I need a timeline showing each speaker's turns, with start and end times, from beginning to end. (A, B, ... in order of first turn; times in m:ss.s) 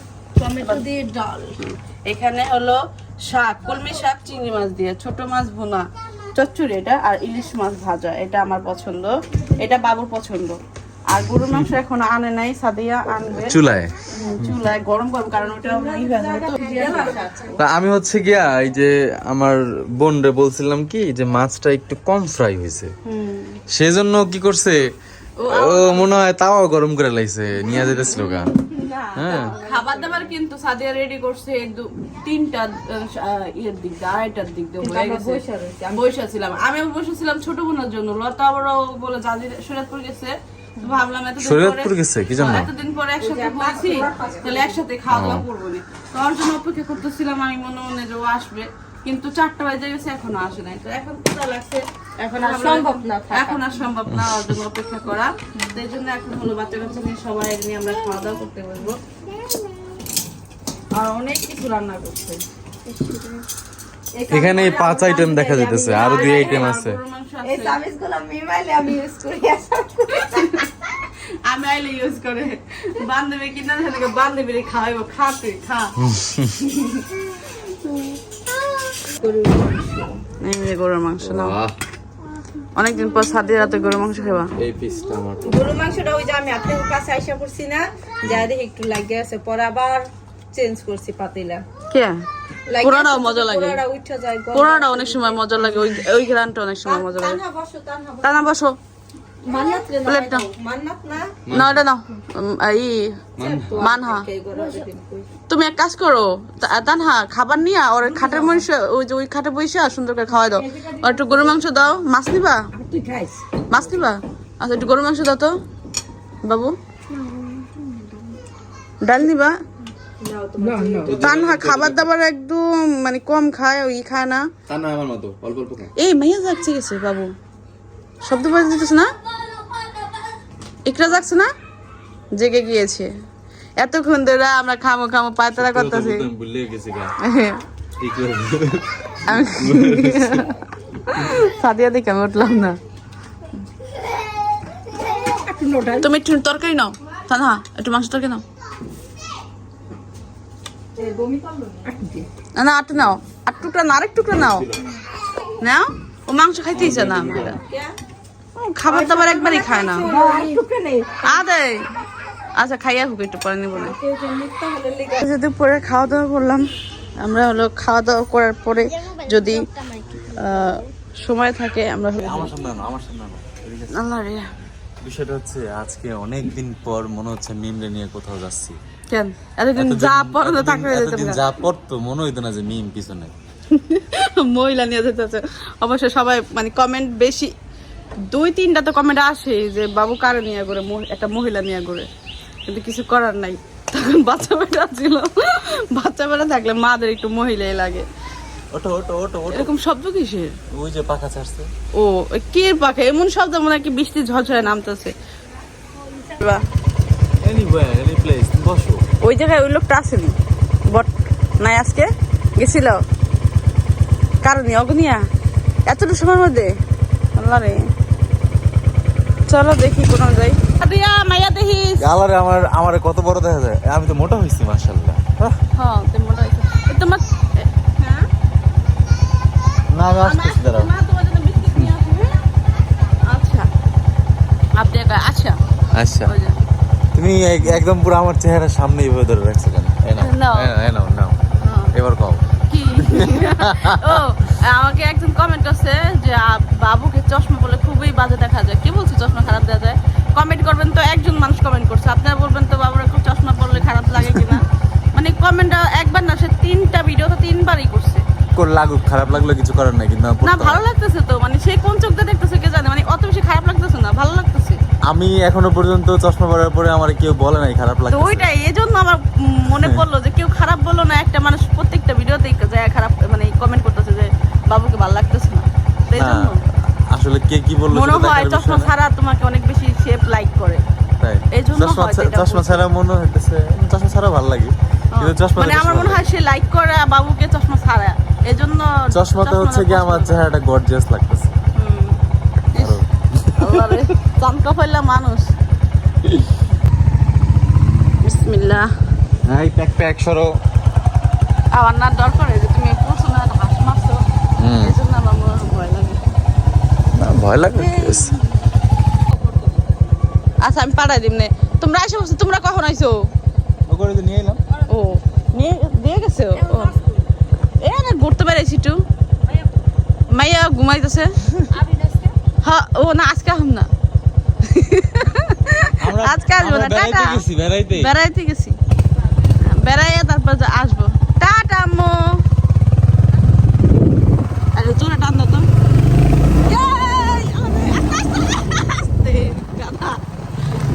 0:00.4-0:01.6 A
0:01.6-0:13.6 B
0:11.3-0:11.7 C
0:13.4-0:14.6 C
0:14.2-0:17.3 B
0:15.4-0:17.6 A
0:17.6-0:22.9 C
0:23.1-0:23.6 B
0:23.7-0:24.8 C
0:25.4-0:26.2 B
0:25.5-0:28.6 C
0:27.7-0:30.3 A
0:29.2-0:29.6 C
0:29.6-0:35.4 B
0:34.8-0:36.0 A
0:35.9-0:59.0 B
0:41.4-0:42.7 C
0:43.2-0:44.8 A
0:45.1-0:45.4 C
0:52.4-0:53.6 A
0:54.1-0:54.6 C
1:00.9-1:02.4 B
1:02.9-1:03.4 A
1:04.2-1:06.7 A
1:04.3-1:07.0 C
1:04.5-1:05.0 B
1:06.0-1:07.8 B
1:07.4-1:10.6 A
1:10.2-1:15.9 B
1:16.0-1:16.6 C
1:17.9-1:18.2 A
1:19.1-1:20.2 A
1:20.4-1:21.6 B
1:21.2-1:21.7 C
1:22.8-1:24.5 B
1:24.6-1:25.6 C
1:25.4-1:31.6 A
1:28.2-1:28.5 C
1:31.9-1:32.2 B
1:32.7-1:36.0 A
1:32.8-1:33.8 B
1:34.5-1:37.4 B
1:36.8-1:38.5 A
1:38.2-1:38.8 B
1:39.4-1:41.4 A
1:40.0-1:40.5 B
1:41.5-1:41.8 C
1:41.5-1:43.1 B
1:43.4-1:43.8 C
1:43.4-1:45.3 A
1:43.8-1:44.3 B
1:45.5-1:52.6 B
1:48.0-1:48.7 A
1:50.4-1:51.7 A
1:52.7-1:53.4 A
1:53.7-1:55.5 B
1:56.5-1:56.7 B
1:57.1-1:58.4 A
1:59.0-1:59.6 B
2:00.2-2:01.1 A
2:01.0-2:02.1 C
2:01.1-2:04.5 B
2:04.7-2:05.9 C
2:06.0-2:07.3 B
2:08.3-2:09.1 B
2:10.9-2:11.5 B
2:12.4-2:13.1 B
2:13.8-2:16.3 B
2:15.6-2:17.1 C
2:17.2-2:17.6 B
2:18.0-2:20.5 C
2:19.3-2:22.8 B
2:25.2-2:26.1 A
2:26.0-2:28.4 B
2:31.0-2:32.3 A
2:32.6-2:34.7 B
2:34.4-2:34.8 C
2:35.6-2:37.6 B
2:36.7-2:37.6 C
2:37.6-2:38.0 A
2:38.6-2:40.1 B
2:38.9-2:41.4 A
2:41.2-2:41.8 B
2:42.6-2:44.0 B
2:43.7-2:45.3 A
2:45.2-2:46.6 B
2:47.2-2:52.5 B
2:52.2-2:54.0 C
2:53.9-2:54.5 B
2:55.0-2:58.8 C
2:59.1-3:01.4 B
2:59.8-3:03.4 C
3:03.7-3:07.5 B
3:08.3-3:12.1 B
3:12.7-3:18.0 B
3:18.7-3:19.7 C
3:19.5-3:20.5 B
3:20.7-3:21.7 C
3:22.0-3:25.1 B
3:26.2-3:26.6 B
3:27.4-3:29.1 C
3:29.2-3:30.4 B
3:30.9-3:33.0 B
3:34.4-3:35.2 B
3:35.9-3:36.7 B
3:37.4-3:37.8 B
3:39.5-3:42.1 B
3:42.0-3:45.6 C
3:45.8-3:47.7 B
3:49.9-3:50.9 C
3:50.2-3:52.4 B
3:53.2-3:53.7 B
3:54.8-3:55.6 B
3:56.0-3:56.3 C
3:56.2-3:56.6 B
3:57.2-4:01.4 C
4:00.2-4:00.7 B
4:01.6-4:01.9 B
4:02.0-4:02.5 C
4:02.7-4:14.6 B
4:03.0-4:04.2 C
4:14.2-4:14.6 C
4:15.2-4:18.2 B
4:18.6-4:20.8 C
4:20.4-4:24.8 B
4:25.1-4:28.5 C
4:28.1-4:36.6 B
4:36.2-4:36.6 C
4:37.1-4:38.9 C
4:37.9-4:40.8 B
4:41.2-4:46.2 C
4:41.5-4:42.9 B
4:45.1-4:50.5 B
4:49.1-4:51.6 C
4:51.8-4:52.2 B
4:52.7-4:53.0 B
4:52.8-4:54.0 C
4:53.6-4:55.4 B
4:58.2-4:58.9 B
4:59.5-5:00.6 C
5:01.7-5:04.2 B
5:04.6-5:05.0 C
5:04.8-5:06.2 B
5:07.2-5:08.3 C
5:07.8-5:08.4 A
5:09.4-5:09.7 A
5:10.6-5:13.2 B
5:13.9-5:14.6 C
5:14.9-5:16.9 B
5:16.6-5:17.3 A
5:17.8-5:19.0 B
5:19.5-5:19.7 A
5:20.3-5:21.3 B
5:21.7-5:22.4 A
5:22.6-5:23.9 B
5:24.6-5:28.8 B
5:26.0-5:28.1 C
5:29.6-5:32.4 B
5:34.8-5:35.7 B
5:36.6-5:40.2 B